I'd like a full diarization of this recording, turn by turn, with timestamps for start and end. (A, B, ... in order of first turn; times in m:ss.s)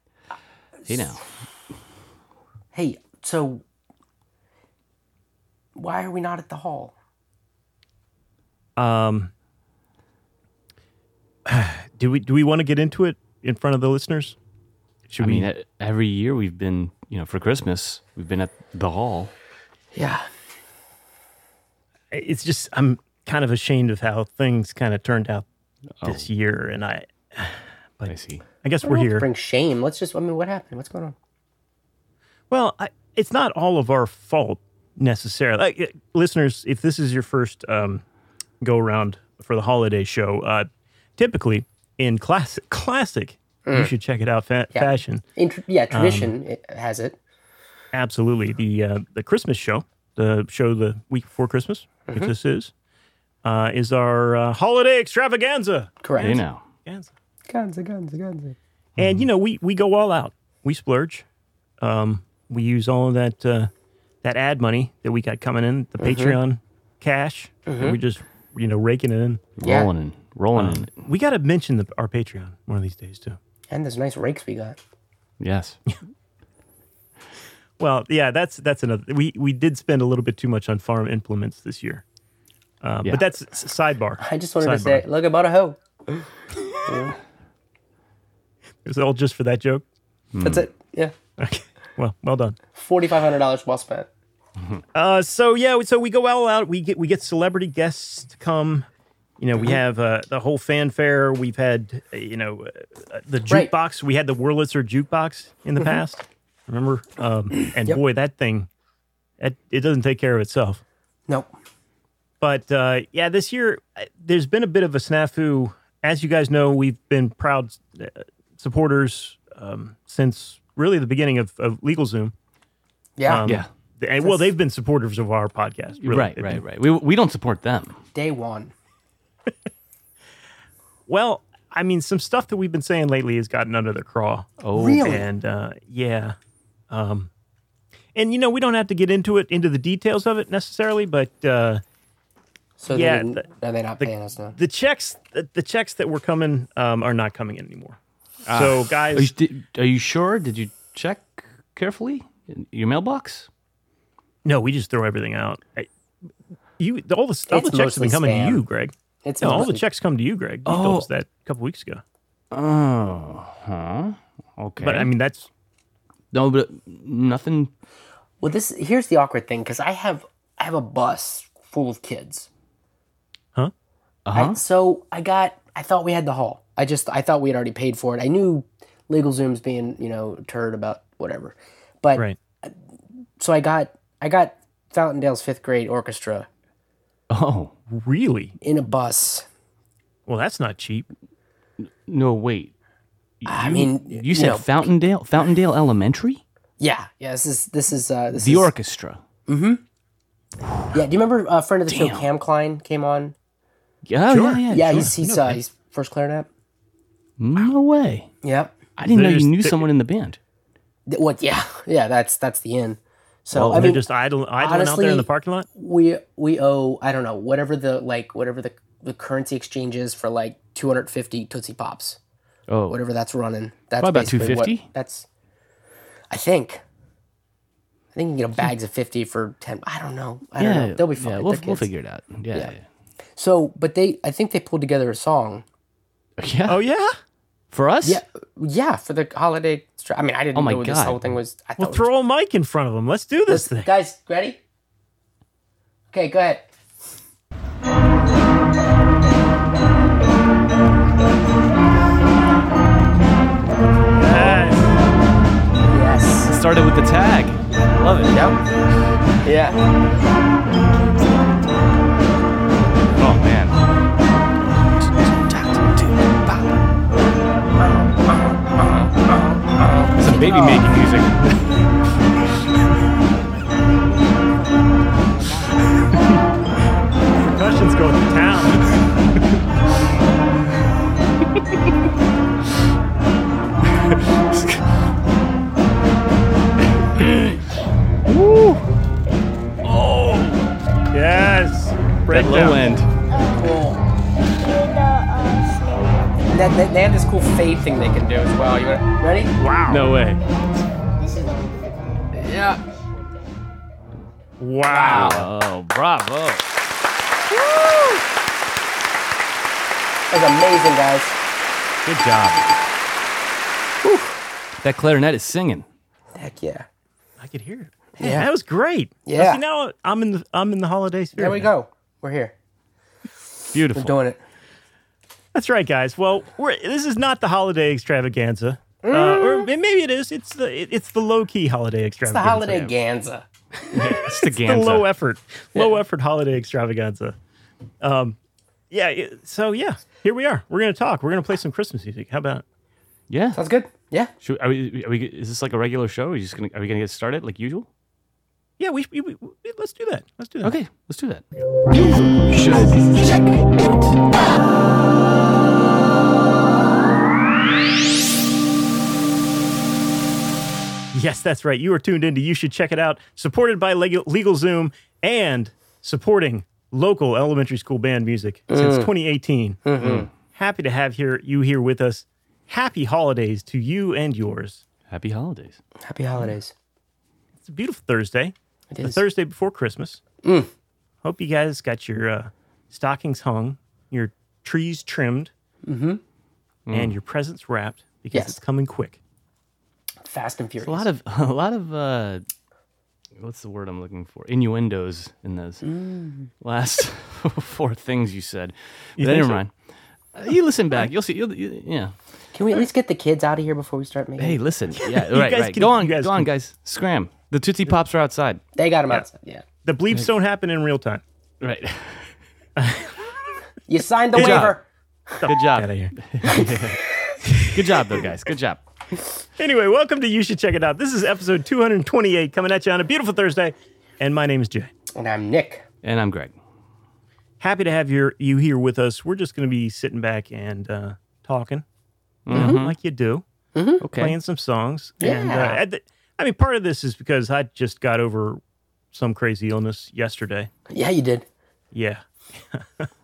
0:00.9-0:01.2 A
0:00.9-0:01.2 B
0:02.7-0:03.6 A
0:05.8-0:07.0 A
0:08.8-0:09.3 C
0:11.5-0:14.4 C
0:15.1-0:15.5 C
0:15.2-0:19.3 B
0:19.9-0:20.3 A
0:22.1-0:25.5 C
0:26.0-0:29.3 C
0:28.1-0:28.4 B
0:28.8-0:31.2 A
0:32.5-0:38.0 C
0:38.6-0:45.2 C
0:43.7-0:43.9 A
0:44.7-0:47.2 A
0:45.9-0:46.4 C
0:47.9-0:52.7 C
0:52.1-0:52.3 A
0:53.4-0:57.1 C
0:56.0-0:56.4 A
0:56.2-0:56.6 B
0:57.5-0:58.6 A
0:59.0-1:01.3 C
1:01.8-1:03.7 C
1:04.2-1:09.4 C
1:06.0-1:06.4 A
1:07.7-1:08.0 A
1:09.6-1:11.0 B
1:09.6-1:09.9 A
1:10.6-1:13.4 C
1:13.7-1:14.8 A
1:15.4-1:15.8 B
1:17.8-1:22.0 C
1:22.8-1:25.0 C
1:24.2-1:26.3 A
1:26.8-1:27.2 A
1:28.8-1:29.8 C
1:30.3-1:30.7 B
1:30.4-1:31.2 A
1:31.4-1:32.6 C
1:32.8-1:34.1 A
1:35.0-1:38.9 C
1:39.4-1:48.7 C
1:49.4-1:50.8 C
1:51.3-1:51.5 A
1:52.4-2:02.3 C
2:03.2-2:03.4 A
2:03.3-2:06.6 C
2:06.0-2:08.0 B
2:08.2-2:08.7 A
2:11.1-2:14.5 C
2:14.6-2:15.1 B
2:14.7-2:15.3 A
2:15.0-2:16.4 C
2:16.9-2:17.3 C
2:18.2-2:21.8 C
2:22.8-2:24.6 A
2:22.9-2:23.5 C
2:24.0-2:28.0 C
2:28.5-2:33.5 B
2:28.5-2:29.3 C
2:34.4-2:35.9 C
2:36.8-2:42.0 C
2:37.5-2:38.6 A
2:39.2-2:39.8 A
2:40.7-2:41.1 B
2:42.5-2:45.1 B
2:44.8-2:45.5 C
2:46.3-2:47.7 B
2:48.4-2:52.5 A
2:54.3-2:54.6 B
2:54.4-3:02.8 A
3:03.4-3:06.5 A
3:07.3-3:07.7 B
3:07.9-3:08.6 C
3:08.6-3:09.5 A
3:10.3-3:11.1 C
3:11.8-3:12.7 B
3:13.4-3:16.4 B
3:13.5-3:14.9 A
3:16.8-3:18.7 A
3:18.4-3:19.2 B
3:19.5-3:19.8 A
3:20.7-3:20.9 B
3:20.9-3:23.4 A
3:21.9-3:22.3 B
3:24.1-3:25.1 B
3:24.3-3:25.6 C
3:24.7-3:26.5 A
3:27.4-3:28.3 B
3:28.4-3:28.8 A
3:29.0-3:30.4 B
3:29.0-3:29.9 C
3:31.1-3:34.0 A
3:33.5-3:33.9 B
3:33.7-3:35.7 C
3:34.6-3:42.2 A
3:42.7-3:43.0 B
3:42.9-3:45.3 A
3:44.0-3:44.9 B
3:46.3-3:46.8 A
3:48.2-3:51.9 A
3:50.6-3:52.8 B
3:53.4-3:55.6 A
3:56.4-3:56.8 B
3:56.7-3:57.2 C
3:57.7-3:58.2 B
3:58.0-4:02.1 A
4:00.6-4:01.2 B
4:01.8-4:03.9 C
4:03.5-4:04.6 A
4:06.1-4:06.7 A
4:14.2-4:14.9 C
4:15.9-4:16.5 A
4:16.5-4:18.4 B
4:18.3-4:18.6 A
4:19.4-4:19.8 A
4:23.2-4:23.8 B
4:24.8-4:26.8 B
4:30.1-4:31.7 B
4:30.3-4:30.8 A
4:37.5-4:38.8 C
4:43.8-4:44.9 B
4:47.0-4:47.6 B
4:48.3-4:48.8 B
4:49.8-4:50.6 B
4:51.1-4:52.8 C
4:52.3-4:53.1 B
4:53.5-4:54.0 A
4:56.5-4:59.5 A
4:59.6-5:00.0 C
4:59.9-5:00.4 B
5:02.3-5:02.8 A
5:04.6-5:05.4 C
5:04.9-5:05.4 A
5:05.1-5:06.7 B
5:10.3-5:11.4 A
5:12.0-5:12.8 B
5:14.0-5:14.4 A
5:14.8-5:15.9 B
5:16.4-5:16.9 A
5:17.4-5:21.7 C
5:18.2-5:18.5 A
5:19.3-5:19.6 A
5:21.4-5:22.6 A
5:23.7-5:24.2 B
5:23.9-5:24.4 A
5:25.5-5:32.9 C
5:29.0-5:29.7 A
5:32.2-5:33.5 A
5:33.9-5:35.1 B
5:34.0-5:37.4 C
5:38.0-5:38.4 C
5:38.9-5:42.6 C
5:43.3-5:43.6 B
5:43.5-5:44.3 A
5:44.4-5:47.9 B
5:48.8-5:50.7 C
5:50.6-5:54.2 B
6:01.1-6:09.9 C
6:08.7-6:09.1 A
6:09.8-6:10.3 A
6:10.0-6:10.3 B
6:10.5-6:14.8 C
6:15.1-6:15.8 B
6:16.0-6:16.7 A
6:17.6-6:20.2 C
6:18.9-6:19.2 A
6:20.4-6:20.7 A
6:21.2-6:25.5 C
6:25.8-6:26.2 A
6:26.9-6:27.1 B
6:26.9-6:29.2 C
6:30.2-6:31.1 A
6:30.8-6:32.4 B
6:33.4-6:35.9 B
6:35.8-6:36.5 A
6:36.6-6:39.7 B
6:39.2-6:39.6 C
6:40.3-6:42.2 B
6:42.5-6:44.6 A
6:44.4-6:48.6 B
6:45.3-6:46.5 C
6:48.8-6:49.6 A
6:49.8-6:51.2 C
6:51.6-6:52.4 B
6:52.8-6:53.3 C
6:53.9-6:55.4 A
6:54.4-6:54.7 C
6:54.4-6:54.8 B
6:55.4-6:56.1 C
6:55.4-6:57.0 B
6:56.5-6:56.7 A
6:57.5-6:58.0 C
6:57.7-6:58.8 B
6:59.6-7:04.9 C
7:05.2-7:05.8 A
7:06.0-7:06.6 B
7:07.6-7:11.8 C
7:12.5-7:13.0 B
7:12.5-7:12.9 A
7:12.5-7:13.4 C
7:13.7-7:14.0 A
7:14.0-7:14.4 B
7:14.2-7:18.6 C
7:15.2-7:15.8 A
7:19.1-7:20.7 C
7:20.9-7:21.5 A
7:21.9-7:23.1 C